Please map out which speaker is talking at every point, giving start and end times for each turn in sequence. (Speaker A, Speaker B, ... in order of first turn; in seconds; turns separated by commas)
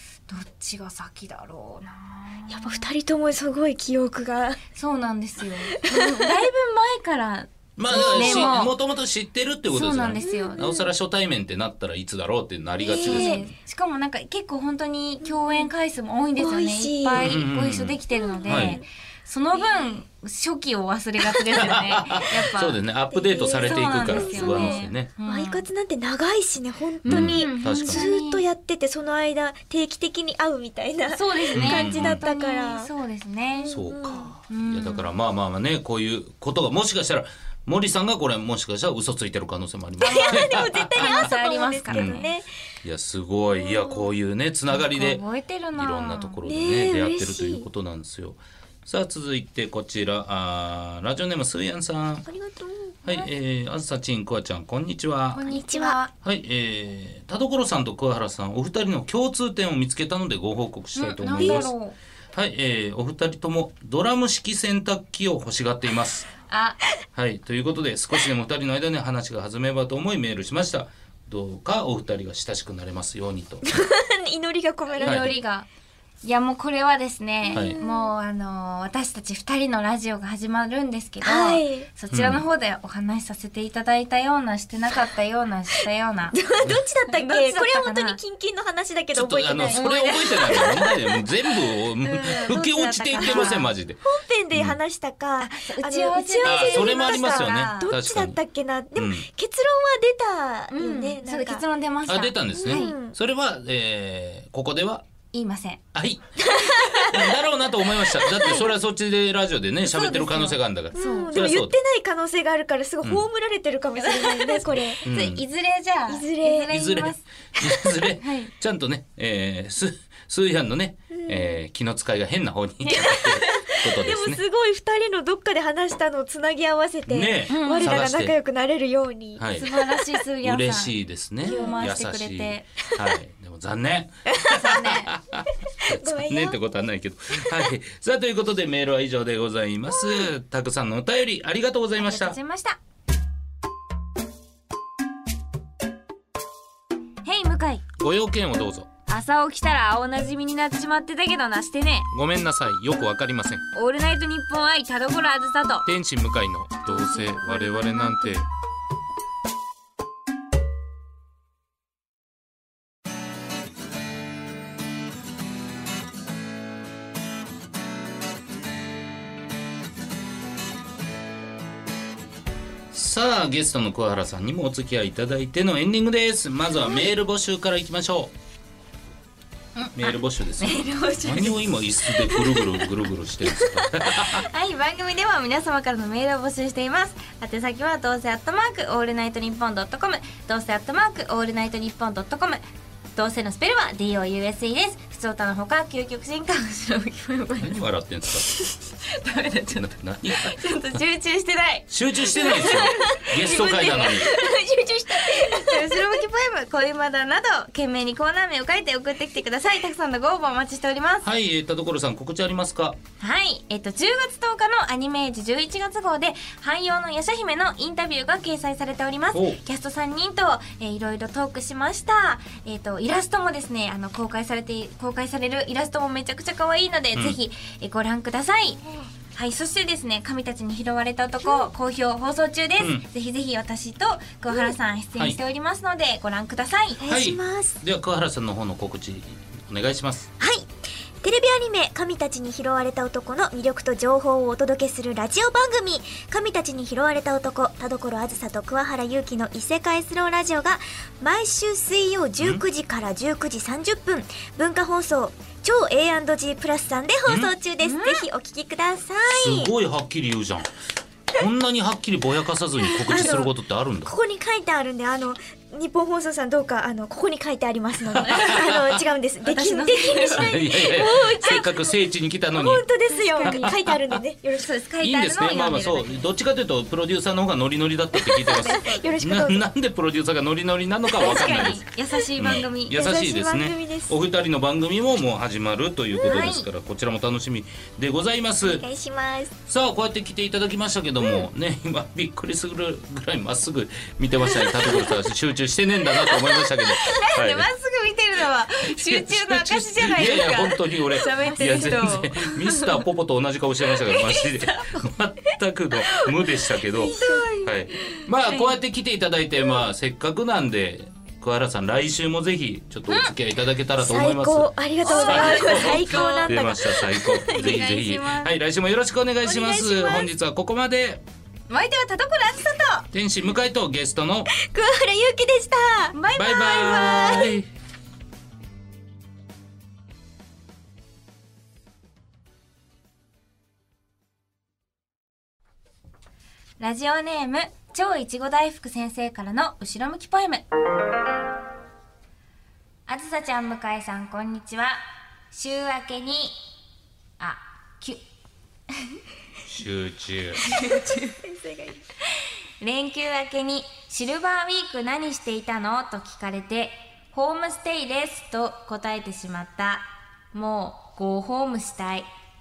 Speaker A: 0.3-2.9, Speaker B: 2.5-4.6, Speaker A: 4.7-8.7, Speaker B: 5.8-6.4, Speaker C: 7.8-13.4, Speaker B: 7.9-8.6, Speaker A: 9.7-10.6, Speaker B: 10.2-10.9, Speaker B: 12.8-13.5, Speaker A: 12.9-22.8, Speaker B: 15.2-15.7, Speaker B: 16.4-17.4, Speaker C: 17.2-18.8, Speaker B: 18.1-18.9, Speaker B: 19.5-19.9, Speaker C: 21.5-25.1, Speaker B: 23.1-32.9, Speaker A: 23.6-25.6, Speaker C: 27.1-28.1, Speaker A: 27.1-28.4, Speaker A: 31.1-33.7, Speaker C: 31.6-32.2, Speaker B: 33.5-34.3, Speaker C: 33.7-41.3, Speaker A: 34.5-35.1, Speaker B: 40.0-42.5, Speaker A: 40.0-42.3, Speaker C: 41.9-42.3, Speaker C: 42.8-45.2, Speaker B: 43.6-44.1, Speaker A: 44.7-46.4, Speaker C: 45.7-52.3, Speaker B: 46.4-47.7, Speaker B: 52.2-53.3, Speaker C: 53.0-55.4, Speaker A: 55.3-56.1, Speaker B: 55.4-56.0, Speaker C: 56.2-61.8, Speaker A: 61.0-62.0, Speaker B: 61.4-61.7, Speaker C: 62.3-66.3, Speaker A: 66.5-66.8, Speaker C: 67.1-73.7, Speaker B: 73.6-75.3, Speaker A: 74.9-75.7, Speaker C: 75.0-75.3, Speaker A: 76.2-86.4, Speaker B: 77.4-78.1, Speaker B: 81.2-81.9, Speaker C: 82.1-82.4, Speaker B: 86.3-91.3, Speaker A: 87.1-88.2, Speaker C: 89.1-94.0, Speaker A: 89.7-90.7, Speaker A: 92.0-93.7, Speaker B: 93.1-101.6, Speaker A: 95.4-97.9, Speaker C: 96.4-98.4, Speaker C: 98.9-99.3, Speaker A: 100.7-103.0, Speaker C: 102.1-105.0, Speaker B: 102.5-103.2, Speaker A: 105.3-105.8, Speaker C: 105.9-111.7, Speaker B: 106.4-107.4, Speaker B: 108.0-108.3, Speaker A: 108.3-108.7, Speaker A: 109.8-111.3, Speaker B: 110.9-115.0, Speaker A: 114.0-117.2, Speaker C: 115.0-115.4, Speaker B: 116.1-116.7, Speaker C: 116.7-124.4, Speaker B: 117.6-117.8, Speaker A: 118.2-118.5, Speaker B: 121.1-121.6, Speaker A: 122.8-123.7, Speaker B: 122.9-129.5, Speaker C: 127.1-128.3, Speaker A: 127.5-128.0, Speaker C: 129.4-129.7, Speaker A: 129.5-132.7, Speaker C: 130.4-142.4, Speaker B: 131.4-131.9, Speaker B: 134.3-134.8, Speaker A: 134.5-135.1, Speaker B: 135.8-136.6, Speaker A: 142.0-142.8, Speaker A: 147.2-147.9, Speaker C: 148.0-148.9, Speaker A: 149.1-152.1, Speaker C: 152.1-153.6, Speaker A: 153.7-155.9, Speaker C: 155.8-158.4, Speaker A: 156.8-158.4, Speaker C: 172.9-178.3, Speaker A: 179.8-181.6, Speaker C: 179.9-184.5, Speaker A: 184.1-192.6, Speaker A: 193.2-197.8, Speaker C: 197.6-198.5, Speaker A: 198.3-211.3, Speaker C: 199.7-201.0, Speaker C: 201.9-204.3, Speaker B: 202.3-206.2, Speaker C: 211.2-213.0, Speaker A: 213.2-237.0, Speaker C: 219.3-219.6, Speaker B: 237.0-237.8, Speaker C: 237.0-240.3, Speaker B: 240.4-240.7, Speaker B: 241.2-259.7, Speaker C: 257.2-257.5, Speaker A: 257.8-258.3, Speaker C: 259.3-260.7, Speaker C: 261.3-264.1, Speaker B: 262.8-271.9, Speaker A: 263.1-263.5, Speaker C: 268.1-269.0, Speaker A: 269.4-270.5, Speaker C: 270.3-272.8, Speaker B: 272.5-274.7, Speaker A: 273.1-273.6, Speaker C: 273.4-274.1, Speaker A: 274.6-276.2, Speaker C: 275.0-281.8, Speaker B: 278.1-279.7, Speaker A: 281.2-283.1, Speaker B: 281.2-281.7, Speaker C: 282.4-288.8, Speaker B: 282.9-284.1, Speaker A: 286.2-286.7, Speaker B: 288.6-289.5, Speaker C: 289.7-297.7, Speaker A: 296.3-302.8, Speaker C: 298.9-321.2, Speaker A: 304.1-305.1, Speaker B: 306.1-307.6, Speaker A: 307.0-308.8, Speaker A: 313.1-313.3, Speaker B: 314.0-317.8, Speaker A: 315.0-316.8, Speaker A: 317.4-318.5, Speaker B: 319.4-320.3, Speaker A: 321.7-323.1, Speaker C: 323.1-324.5, Speaker B: 324.5-326.1, Speaker A: 326.1-327.5, Speaker C: 326.4-327.7, Speaker A: 336.8-340.6, Speaker A: 343.1-346.6, Speaker A: 347.4-348.2, Speaker C: 349.7-350.7, Speaker A: 350.6-351.4, Speaker B: 350.8-352.1, Speaker A: 352.8-362.3